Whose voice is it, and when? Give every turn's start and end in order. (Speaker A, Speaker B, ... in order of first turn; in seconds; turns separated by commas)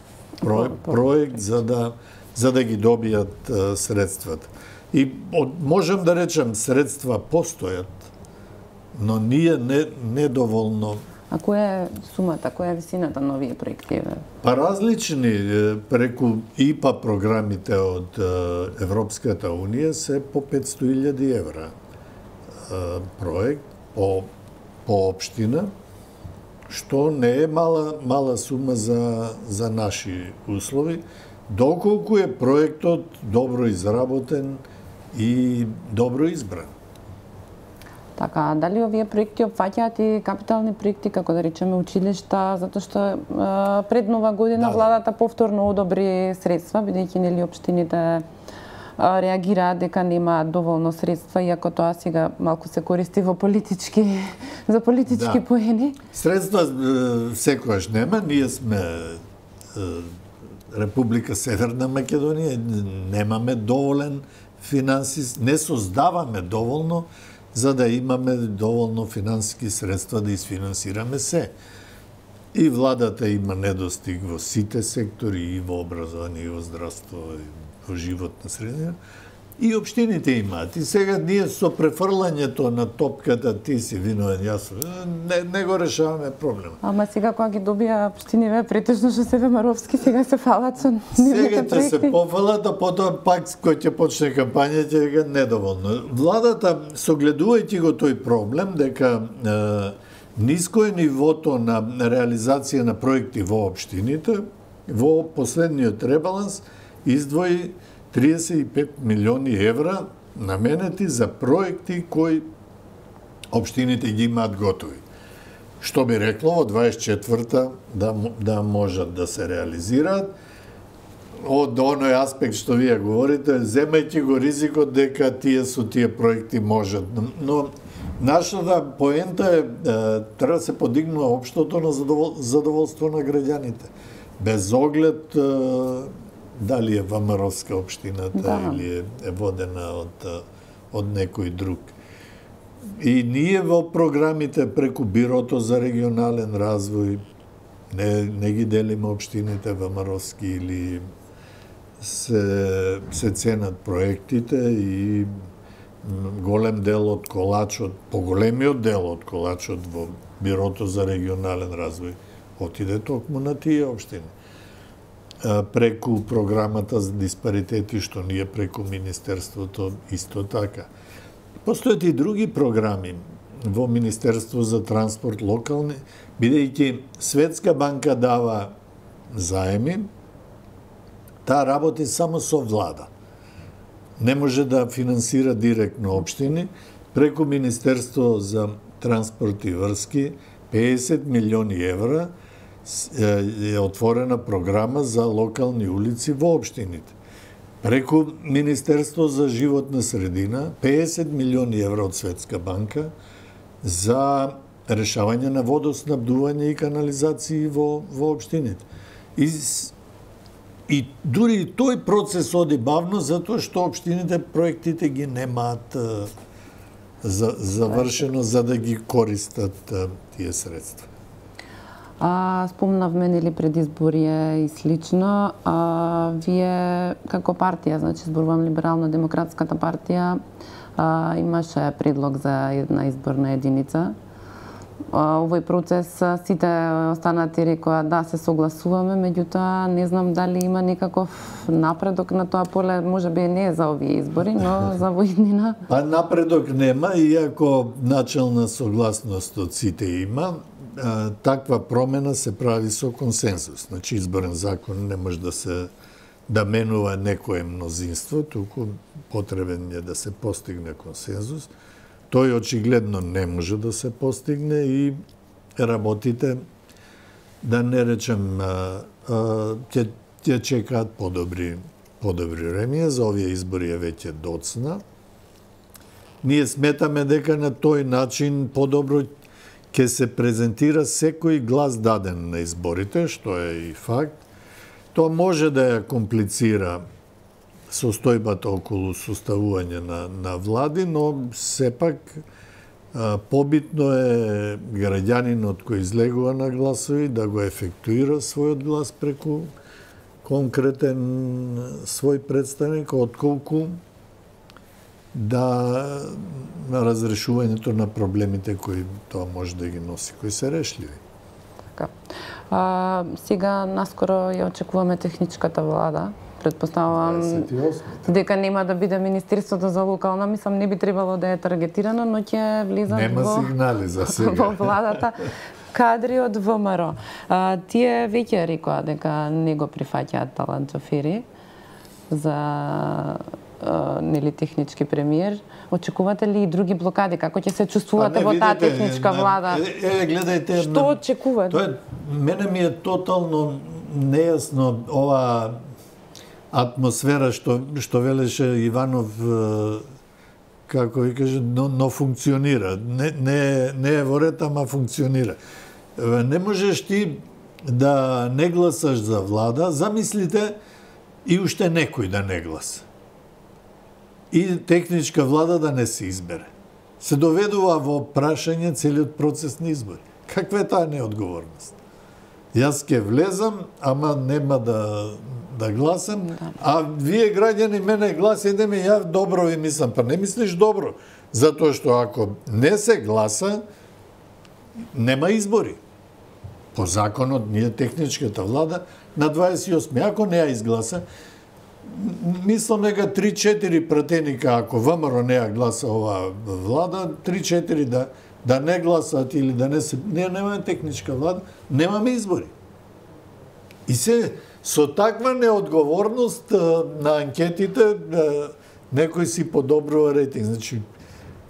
Speaker A: 0.4-8.1, Speaker B: 0.5-1.0, Speaker A: 8.9-11.0, Speaker B: 11.3-14.2, Speaker A: 14.4-21.7, Speaker A: 22.6-24.3, Speaker A: 24.8-25.7, Speaker A: 26.7-34.6, Speaker A: 35.1-36.7, Speaker B: 38.2-48.2, Speaker A: 44.5-44.9, Speaker B: 49.0-56.0, Speaker A: 55.1-55.4, Speaker A: 56.1-59.2, Speaker A: 59.7-60.1, Speaker A: 60.7-71.5, Speaker A: 72.5-79.0, Speaker A: 79.6-86.8, Speaker B: 86.8-92.1, Speaker A: 91.1-112.5, Speaker A: 113.5-115.0, Speaker A: 115.8-120.3, Speaker A: 121.4-141.9, Speaker B: 138.3-138.8, Speaker A: 143.0-147.2, Speaker A: 147.9-151.0, Speaker A: 152.0-155.3, Speaker A: 156.0-164.3, Speaker A: 165.4-170.9, Speaker A: 171.6-178.7, Speaker A: 179.3-180.1, Speaker A: 181.4-183.1, Speaker A: 184.2-192.3, Speaker A: 192.8-197.1, Speaker A: 197.8-203.1, Speaker A: 203.8-209.9, Speaker A: 210.9-216.3, Speaker A: 217.2-221.1, Speaker B: 222.2-230.4, Speaker B: 231.0-234.1, Speaker B: 235.1-245.8, Speaker A: 245.9-255.9, Speaker A: 256.5-261.7, Speaker A: 262.3-265.2, Speaker A: 265.8-266.6, Speaker A: 267.6-275.0, Speaker A: 276.4-279.3, Speaker A: 279.9-284.4, Speaker A: 285.1-287.0, Speaker A: 287.9-292.4, Speaker A: 293.1-299.7, Speaker A: 300.4-304.0, Speaker A: 305.3-311.2, Speaker B: 312.7-317.7, Speaker A: 317.1-318.3, Speaker B: 318.2-331.4, Speaker A: 323.1-325.2, Speaker B: 332.3-339.8, Speaker A: 338.1-341.2, Speaker B: 340.7-341.8, Speaker A: 341.7-345.8, Speaker A: 346.7-350.0, Speaker A: 350.9-355.6, Speaker A: 356.1-360.7, Speaker A: 361.4-363.0, Speaker A: 364.5-371.9, Speaker A: 372.7-383.8, Speaker A: 385.1-386.0, Speaker A: 386.9-391.2, Speaker A: 392.0-402.7, Speaker A: 404.1-411.0